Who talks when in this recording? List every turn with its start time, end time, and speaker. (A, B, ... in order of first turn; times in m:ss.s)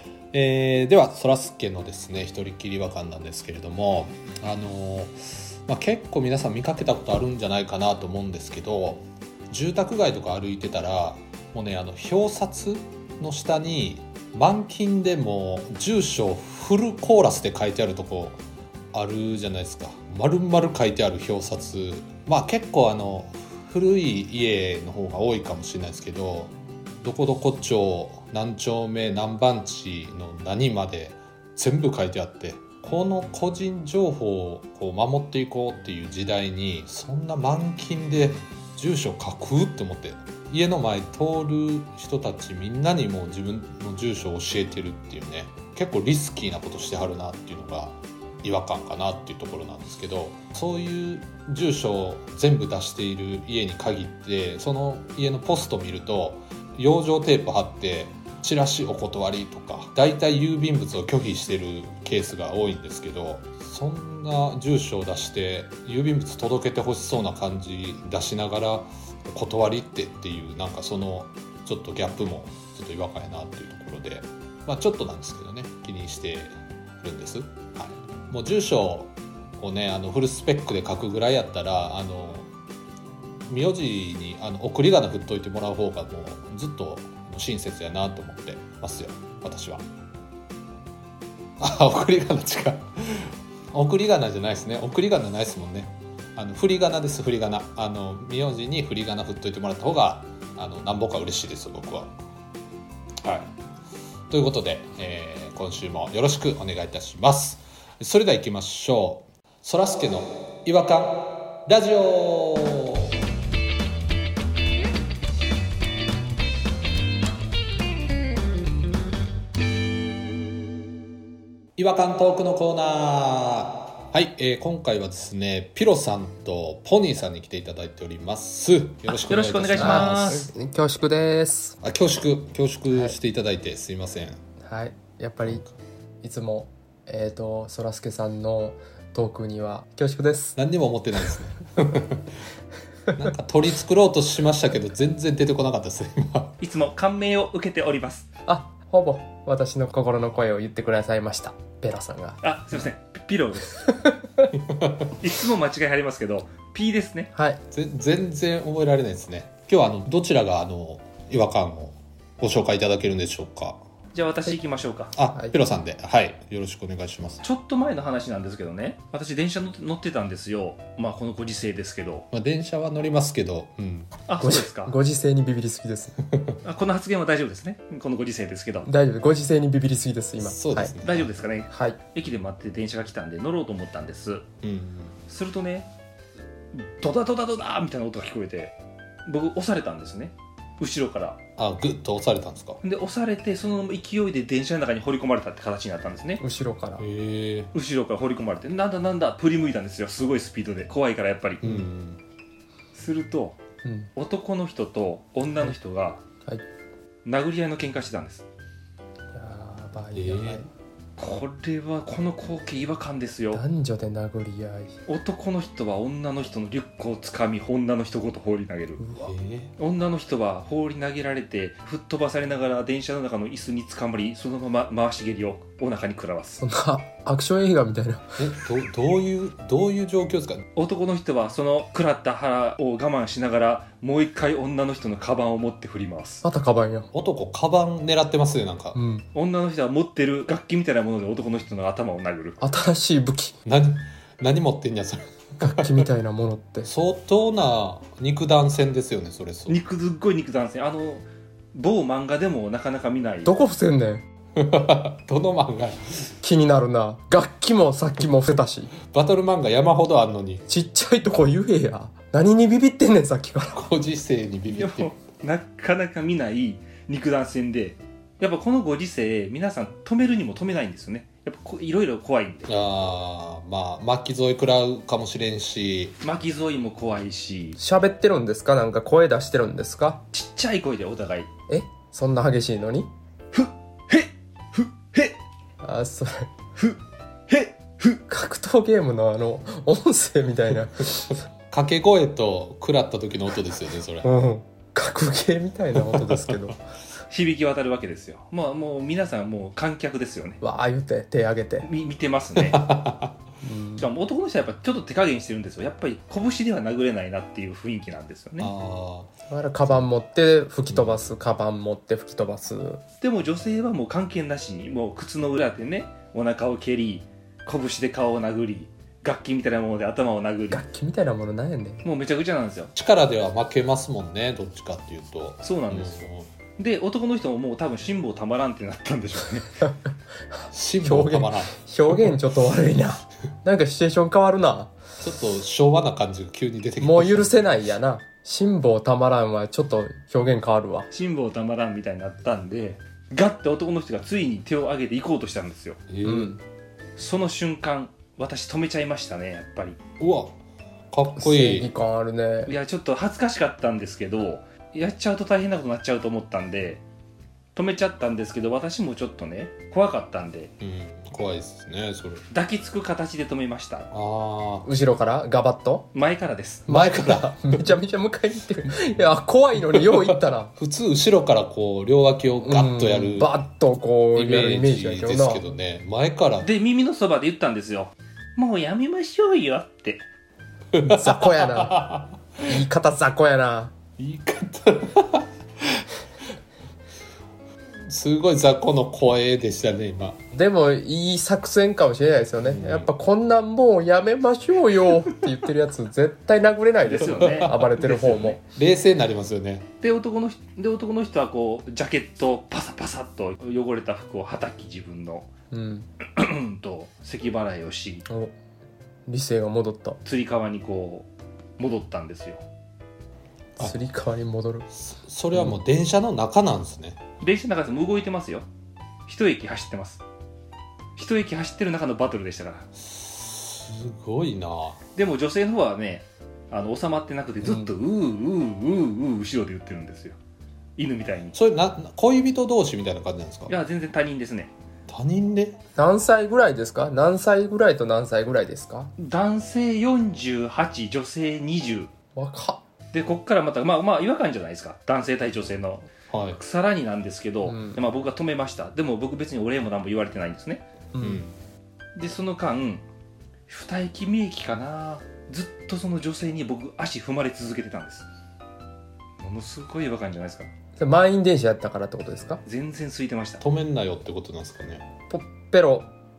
0:00.3-0:18.4 A
0:18.9-1:22.5 A
1:23.5-1:29.8 A
1:31.6-1:42.1 A
1:43.2-1:43.5 B
1:44.3-1:53.1 A
2:01.8-2:10.5 A
2:09.2-2:10.5 B
2:09.8-2:11.8 C
2:11.8-2:14.4 A
2:12.9-2:13.2 C
2:14.6-2:15.6 C
2:15.4-2:15.7 A
2:16.2-2:20.6 C
2:20.6-2:22.4 A
2:23.1-2:26.6 A
2:26.6-2:28.2 B
2:28.4-2:32.4 C
2:32.4-2:33.8 B
2:33.8-2:34.5 C
2:34.7-2:35.1 A
2:35.1-2:37.3 B
2:37.3-2:37.6 C
2:37.7-2:43.8 A
2:44.1-2:45.1 B
2:45.1-2:47.4 A
2:45.3-2:45.6 C
2:47.4-2:52.2 B
2:52.3-2:54.2 A
2:54.3-2:54.9 B
2:54.4-2:56.2 C
2:56.6-2:58.9 B
2:58.8-3:01.0 C
3:00.4-3:01.3 A
3:01.0-3:04.4 B
3:01.7-3:02.0 C
3:04.6-3:05.2 A
3:05.3-3:05.9 B
3:06.7-3:08.7 B
3:09.2-3:11.4 B
3:11.6-3:12.8 A
3:12.8-3:16.4 B
3:16.4-3:17.0 C
3:17.0-3:17.7 A
3:17.7-3:21.6 B
3:21.6-3:22.2 A
3:22.9-3:23.6 B
3:23.8-3:24.1 C
3:24.2-3:26.2 B
3:27.2-3:28.4 B
3:29.3-3:30.7 C
3:30.1-3:30.6 A
3:31.2-3:33.6 B
3:33.5-3:35.0 C
3:35.1-3:39.0 B
3:39.0-3:39.3 C
3:39.1-3:39.7 A
3:39.8-3:46.6 B
3:46.6-3:48.6 C
3:48.4-3:50.6 A
3:50.8-3:56.4 B
3:56.4-3:57.1 C
3:57.1-3:59.0 A
3:58.9-3:59.2 C
3:59.3-4:02.6 B
4:02.6-4:03.5 C
4:03.6-4:06.0 A
4:05.6-4:06.9 C
4:06.8-4:09.8 A
4:09.7-4:13.6 B
4:13.4-4:14.2 C
4:14.6-4:16.3 A
4:16.4-4:18.9 C
4:19.0-4:20.6 A
4:20.7-4:23.9 C
4:23.7-4:25.1 A
4:24.7-4:32.7 B
4:32.7-4:36.2 A
4:36.2-4:37.8 B
4:37.8-4:40.2 C
4:40.3-4:41.5 B
4:41.7-4:43.1 C
4:43.5-4:45.4 B
4:45.8-4:46.5 C
4:46.8-4:48.2 B
4:48.3-4:51.4 C
4:51.7-4:54.3 A
4:54.2-4:56.8 C
4:56.0-4:56.6 A
4:57.3-5:00.6 B
5:00.6-5:01.9 C
5:01.8-5:02.8 B
5:02.6-5:03.4 A
5:03.6-5:04.1 C
5:04.0-5:08.7 B
5:08.6-5:09.3 A
5:09.5-5:13.0 C
5:10.9-5:11.2 A
5:13.2-5:20.8 B
5:20.7-5:22.0 C
5:22.0-5:22.9 B
5:23.0-5:26.5 A
5:25.6-5:29.7 B
5:29.8-5:30.1 C
5:30.6-5:35.0 C
5:30.7-5:32.3 A
5:35.2-5:37.7 A
5:37.0-5:41.1 C
5:41.1-5:46.0 B
5:46.1-5:46.5 A
5:46.2-5:46.6 C
5:47.2-5:50.0 B
5:50.2-5:50.5 A
5:51.1-5:51.9 A
5:51.3-5:52.7 C
5:52.6-5:57.0 B
5:57.7-6:00.7 B
6:00.8-6:02.4 A
6:02.5-6:04.1 B
6:04.1-6:04.9 A
6:04.8-6:06.1 C
6:06.1-6:06.9 B
6:06.8-6:10.7 C
6:06.9-6:07.9 A
6:09.9-6:10.2 A
6:10.8-6:13.5 A
6:12.6-6:15.7 C
6:14.3-6:16.7 A
6:16.6-6:20.2 B
6:20.9-6:22.5 A
6:21.0-6:23.9 C
6:24.2-6:26.1 A
6:28.0-6:30.4 A
6:30.5-6:38.6 C
6:32.6-6:33.1 A
6:37.0-6:38.6 B
6:37.2-6:37.9 A
6:38.7-6:39.9 A
6:40.0-6:45.5 B
6:45.7-6:46.1 C
6:46.2-6:48.2 B
6:48.3-6:48.5 C
6:49.3-6:50.2 C
6:50.2-6:52.6 B
6:53.8-6:54.9 C
6:54.9-6:57.2 A
6:57.4-6:58.7 B
6:59.3-7:00.2 B
7:01.2-7:02.8 B
7:03.0-7:05.0 A
7:05.2-7:10.4 B
7:11.0-7:11.5 B
7:11.5-7:13.7 A
7:13.7-7:14.7 B
7:15.1-7:15.8 A
7:16.0-7:19.1 C
7:19.2-7:22.1 B
7:22.3-7:22.8 C
7:23.1-7:30.8 B
7:26.3-7:26.6 A
7:27.6-7:28.0 C
7:31.1-7:31.4 C
7:31.2-7:31.5 A
7:32.2-7:33.0 B
7:33.7-7:38.2 B
7:39.4-7:40.7 B
7:41.0-7:42.6 C
7:42.6-7:43.6 B
7:43.6-7:45.0 A
7:45.3-7:46.1 C